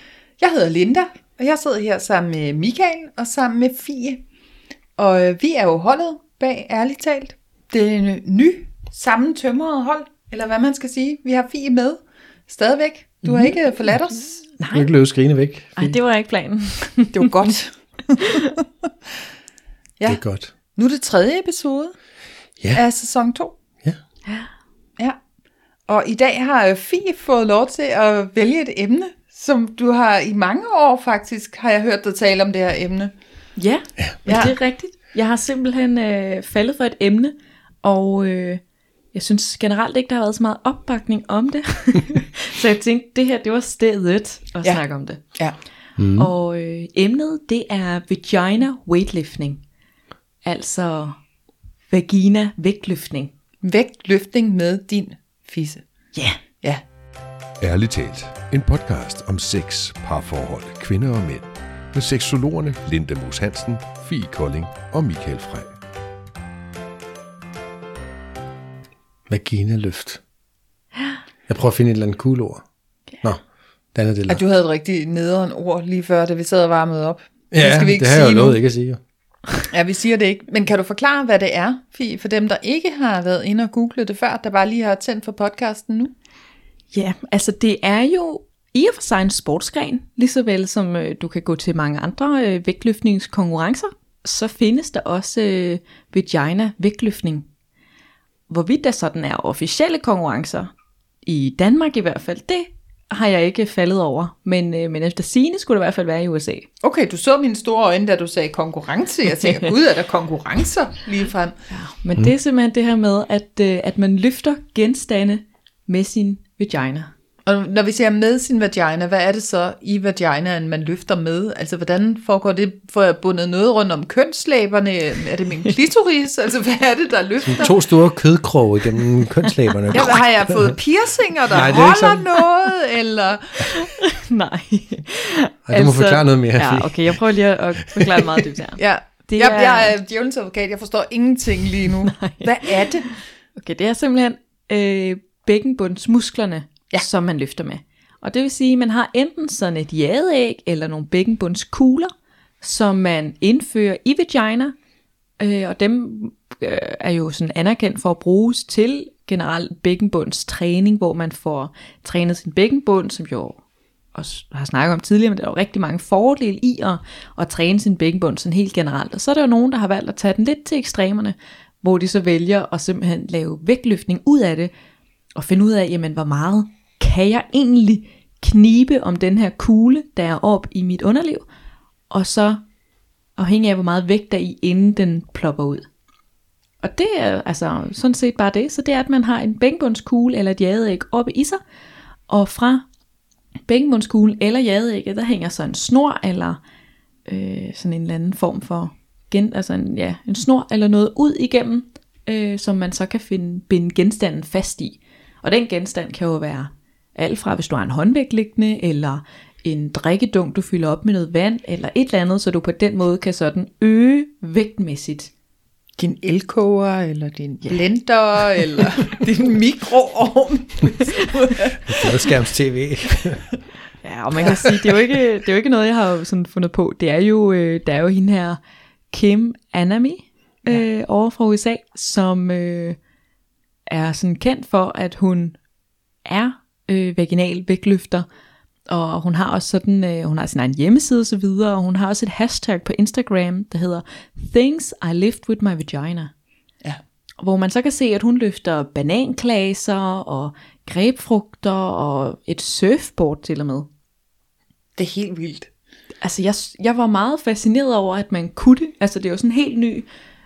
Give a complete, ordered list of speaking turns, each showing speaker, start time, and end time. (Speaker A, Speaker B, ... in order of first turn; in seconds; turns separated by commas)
Speaker A: 0.4-4.2, Speaker A: 5.0-14.4, Speaker B: 14.6-14.9, Speaker C: 14.7-16.0, Speaker B: 15.8-17.5, Speaker A: 17.1-18.4, Speaker C: 20.1-20.5, Speaker A: 20.7-21.9, Speaker A: 22.7-23.5, Speaker A: 25.9-33.1, Speaker B: 33.6-38.6, Speaker A: 34.2-34.5, Speaker B: 39.1-45.2, Speaker D: 46.0-46.3, Speaker B: 46.1-49.6, Speaker B: 50.4-51.1, Speaker B: 51.9-53.3, Speaker A: 53.6-55.8, Speaker D: 57.6-65.8, Speaker C: 69.3-70.2, Speaker C: 71.5-72.6, Speaker C: 73.9-74.4, Speaker A: 74.2-78.6, Speaker C: 77.5-79.0, Speaker A: 79.7-86.1, Speaker B: 86.9-97.5, Speaker B: 98.5-100.7, Speaker B: 101.2-106.7, Speaker A: 106.8-111.5, Speaker B: 111.7-117.1, Speaker A: 117.5-127.7, Speaker C: 127.4-130.7, Speaker A: 129.9-133.8, Speaker C: 131.5-132.2, Speaker B: 133.8-139.9, Speaker C: 135.7-137.2, Speaker C: 138.0-138.2, Speaker A: 138.8-143.1, Speaker B: 142.1-154.7, Speaker B: 155.4-163.6, Speaker B: 164.1-174.7, Speaker B: 175.3-181.4, Speaker B: 182.1-182.6, Speaker B: 183.3-185.8, Speaker B: 186.8-191.6, Speaker B: 192.3-192.8, Speaker B: 193.7-196.6, Speaker B: 197.3-215.3, Speaker A: 216.0-222.1, Speaker C: 221.8-223.5, Speaker B: 224.0-228.6, Speaker C: 224.4-224.7, Speaker B: 229.1-233.0, Speaker B: 233.9-235.6, Speaker B: 236.2-238.2, Speaker B: 238.9-246.3, Speaker B: 247.4-253.9, Speaker A: 255.0-255.7, Speaker B: 256.2-260.1